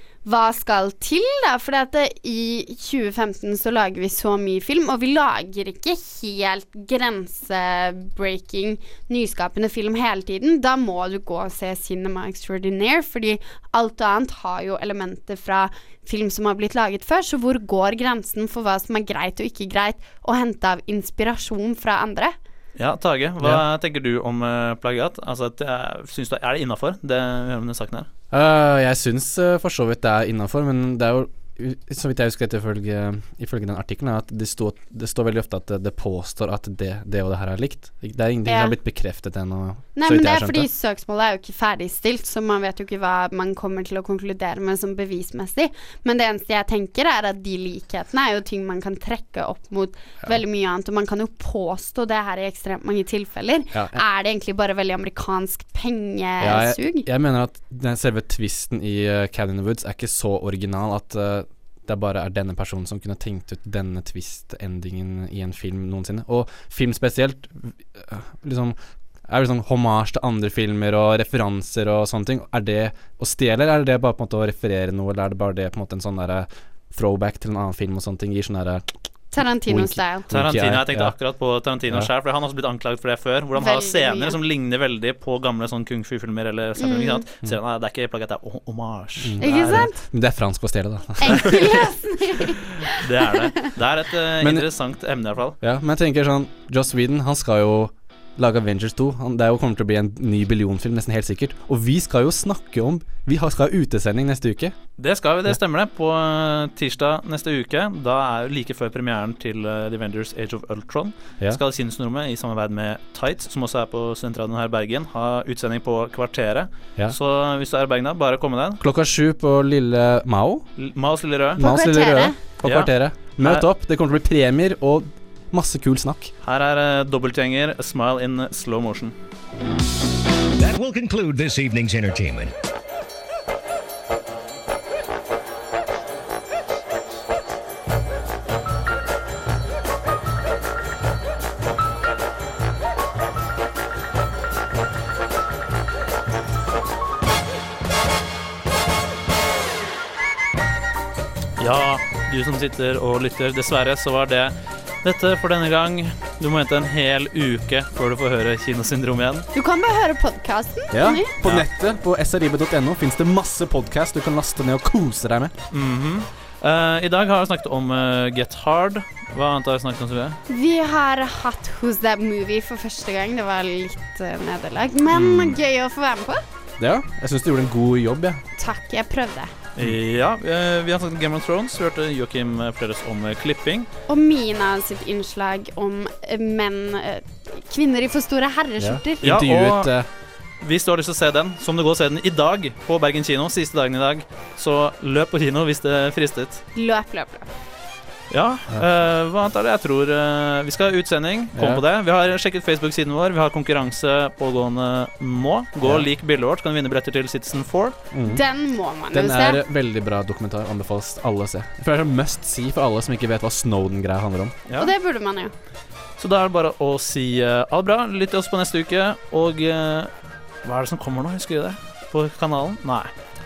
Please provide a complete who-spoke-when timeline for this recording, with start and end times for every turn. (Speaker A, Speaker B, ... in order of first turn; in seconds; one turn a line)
Speaker A: 0.2-22.4
Speaker B: 22.8-28.1
Speaker C: 28.3-40.7
Speaker A: 38.5-38.8
Speaker A: 40.0-57.1
Speaker C: 53.7-54.0
Speaker C: 56.4-68.8
Speaker C: 69.3-78.9
Speaker A: 79.3-80.3
Speaker C: 79.4-81.1
Speaker B: 80.3-89.9
Speaker A: 83.6-84.4
Speaker A: 86.8-87.2
Speaker C: 89.2-91.6
Speaker A: 89.4-90.0
Speaker A: 91.2-93.7
Speaker B: 91.3-91.8
Speaker B: 92.8-95.6
Speaker C: 95.6-104.8
Speaker B: 105.0-118.8
Speaker C: 118.8-120.7
Speaker B: 120.8-121.6
Speaker C: 121.6-126.3
Speaker A: 121.6-122.4
Speaker B: 122.6-123.7
Speaker B: 126.4-129.2
Speaker D: 130.6-132.5
Speaker B: 151.6-159.5
Speaker A: 159.5-161.3
Speaker C: 160.9-165.5
Speaker B: 165.7-170.4
Speaker A: 170.5-176.4
Speaker B: 175.1-175.6
Speaker C: 176.8-178.4
Speaker A: 178.6-179.5
Speaker B: 179.8-183.9
Speaker A: 184.1-189.2
Speaker C: 188.8-190.1
Speaker B: 189.2-189.9
Speaker B: 190.6-196.6
Speaker A: 196.8-197.5
Speaker B: 198.3-208.0
Speaker C: 201.6-201.8
Speaker C: 208.1-208.4
Speaker A: 208.3-209.6
Speaker C: 209.1-214.6
Speaker B: 214.7-214.9
Speaker A: 214.8-215.5
Speaker B: 216.2-220.1
Speaker B: 220.6-223.1